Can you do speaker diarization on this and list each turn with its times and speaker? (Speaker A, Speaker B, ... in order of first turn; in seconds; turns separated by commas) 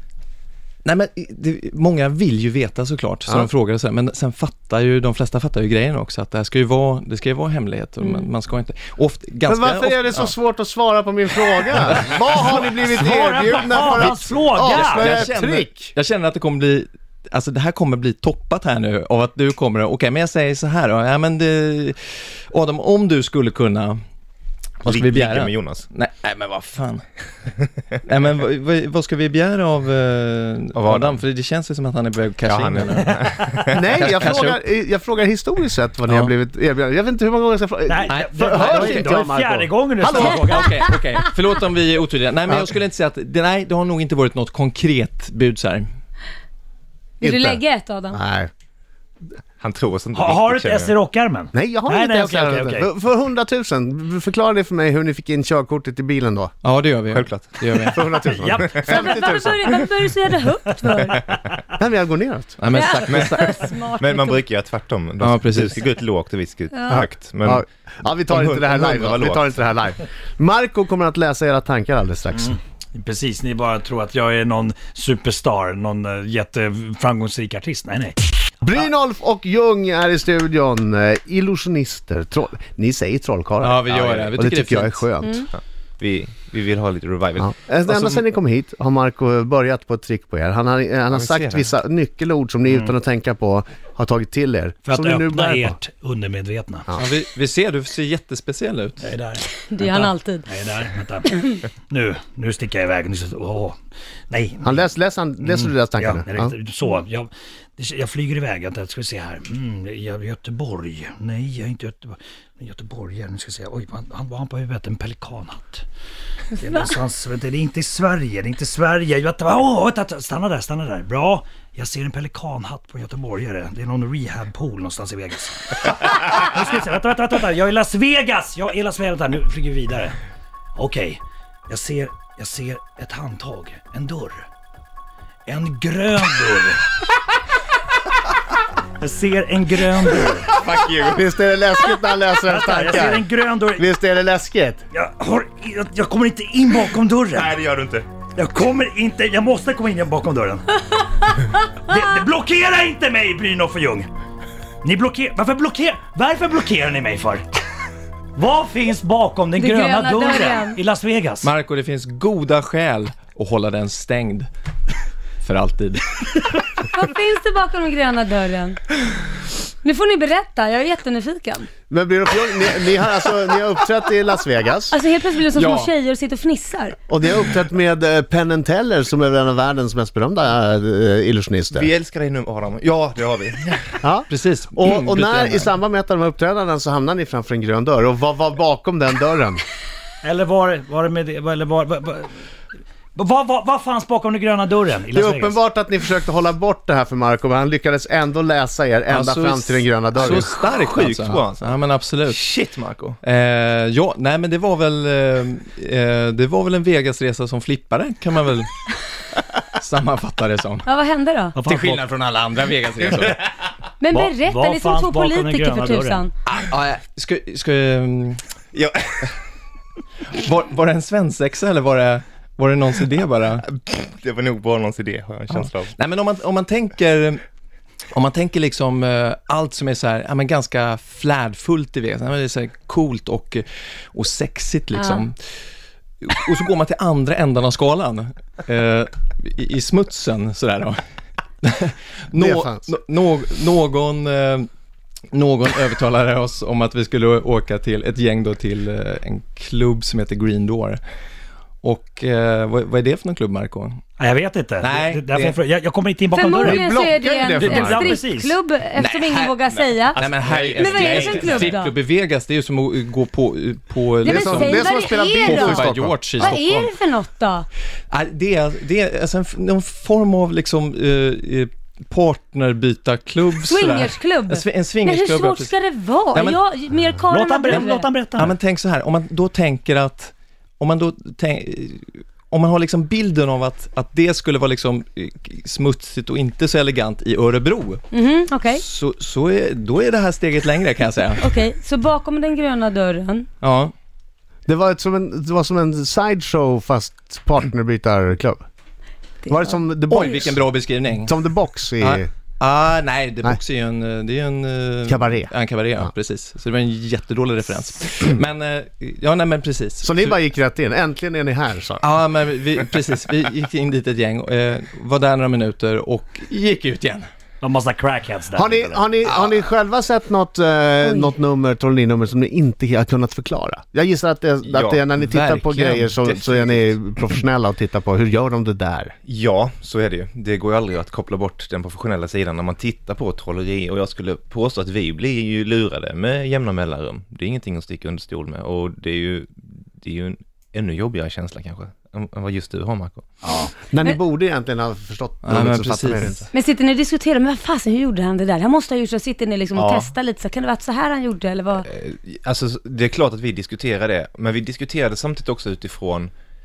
Speaker A: 0.8-10.3, Speaker B: 9.4-15.9, Speaker A: 11.8-12.2, Speaker C: 12.8-15.2, Speaker A: 14.1-24.0, Speaker A: 24.8-27.1, Speaker D: 24.8-25.9, Speaker A: 28.0-33.1, Speaker D: 30.7-31.2, Speaker D: 32.5-33.8, Speaker B: 33.7-40.4, Speaker A: 33.9-34.6, Speaker A: 36.0-36.3, Speaker C: 37.9-40.7, Speaker A: 38.1-39.1, Speaker A: 40.0-45.9, Speaker B: 42.5-42.7, Speaker E: 47.2-48.2, Speaker B: 47.2-47.6, Speaker B: 48.1-48.5, Speaker D: 49.6-50.9, Speaker C: 50.1-52.9, Speaker B: 51.5-56.5, Speaker A: 56.6-58.1, Speaker D: 57.1-59.9, Speaker B: 57.8-59.6, Speaker C: 58.4-58.8, Speaker E: 58.9-61.1, Speaker D: 61.0-61.4, Speaker B: 61.7-62.6, Speaker A: 62.6-63.5, Speaker E: 62.7-64.5, Speaker D: 63.0-67.6, Speaker A: 65.2-65.8, Speaker E: 66.7-67.0, Speaker B: 66.9-72.5, Speaker D: 68.3-69.5, Speaker C: 72.4-78.2, Speaker B: 78.6-85.5, Speaker A: 83.6-85.1, Speaker D: 85.5-88.2, Speaker B: 87.4-95.8, Speaker D: 91.1-91.7, Speaker C: 92.7-92.9, Speaker C: 94.8-96.8, Speaker A: 96.9-99.1, Speaker C: 99.0-103.8, Speaker E: 99.5-100.5, Speaker C: 104.3-104.9, Speaker B: 104.6-106.5, Speaker C: 105.4-115.8, Speaker C: 116.5-130.2, Speaker C: 130.8-134.4, Speaker C: 135.5-136.8, Speaker C: 139.0-140.5, Speaker D: 140.3-141.2, Speaker B: 141.0-144.8, Speaker C: 142.5-143.8, Speaker C: 144.9-147.5, Speaker D: 147.2-148.1, Speaker C: 148.3-150.7, Speaker C: 151.8-154.1, Speaker C: 154.8-157.4, Speaker C: 158.3-161.5, Speaker E: 159.6-160.8, Speaker A: 161.4-164.5, Speaker A: 165.4-166.6, Speaker E: 166.9-168.8, Speaker E: 169.8-171.7, Speaker B: 171.9-174.9, Speaker E: 174.9-177.0, Speaker A: 175.5-175.9, Speaker B: 177.1-181.9, Speaker D: 181.7-184.0, Speaker B: 184.0-189.6, Speaker A: 184.3-185.7, Speaker C: 190.2-192.3, Speaker C: 193.1-195.6, Speaker B: 195.1-200.5, Speaker A: 199.1-202.4, Speaker D: 200.4-203.2, Speaker A: 203.2-208.7, Speaker A: 209.7-210.9, Speaker E: 210.8-211.6, Speaker C: 211.6-212.0, Speaker A: 211.6-213.5, Speaker E: 214.0-216.3, Speaker C: 214.1-216.2, Speaker A: 216.4-218.4, Speaker D: 218.7-219.4, Speaker A: 220.2-223.6, Speaker D: 223.6-225.9, Speaker A: 225.5-227.4, Speaker A: 228.1-235.4, Speaker E: 234.9-235.2, Speaker A: 236.2-241.0, Speaker A: 241.6-244.7, Speaker B: 242.3-242.9, Speaker A: 245.3-251.0, Speaker A: 251.8-254.0, Speaker C: 254.2-256.9, Speaker A: 254.8-255.6, Speaker E: 256.3-261.9, Speaker B: 256.6-258.2, Speaker C: 257.6-258.6, Speaker A: 259.0-266.9, Speaker D: 260.2-261.8, Speaker E: 264.2-267.6, Speaker B: 264.2-266.2, Speaker A: 268.1-276.6, Speaker E: 273.6-278.1, Speaker C: 277.3-278.6, Speaker A: 277.7-288.1, Speaker E: 288.1-288.8, Speaker A: 288.7-291.5, Speaker E: 291.4-293.5, Speaker A: 293.6-293.9, Speaker B: 294.6-298.6, Speaker E: 299.4-300.4, Speaker B: 299.5-302.3, Speaker A: 300.1-301.4, Speaker A: 302.0-310.4, Speaker B: 305.1-306.1, Speaker B: 310.0-312.0, Speaker A: 312.0-317.3, Speaker C: 317.6-319.0, Speaker B: 318.5-329.1, Speaker A: 319.2-319.5, Speaker E: 321.0-321.3, Speaker D: 324.7-325.0, Speaker A: 325.1-327.0, Speaker D: 329.2-343.2, Speaker C: 343.4-343.7, Speaker B: 343.9-346.4, Speaker A: 345.4-346.5, Speaker E: 346.5-351.9, Speaker D: 349.7-350.1, Speaker D: 351.8-356.3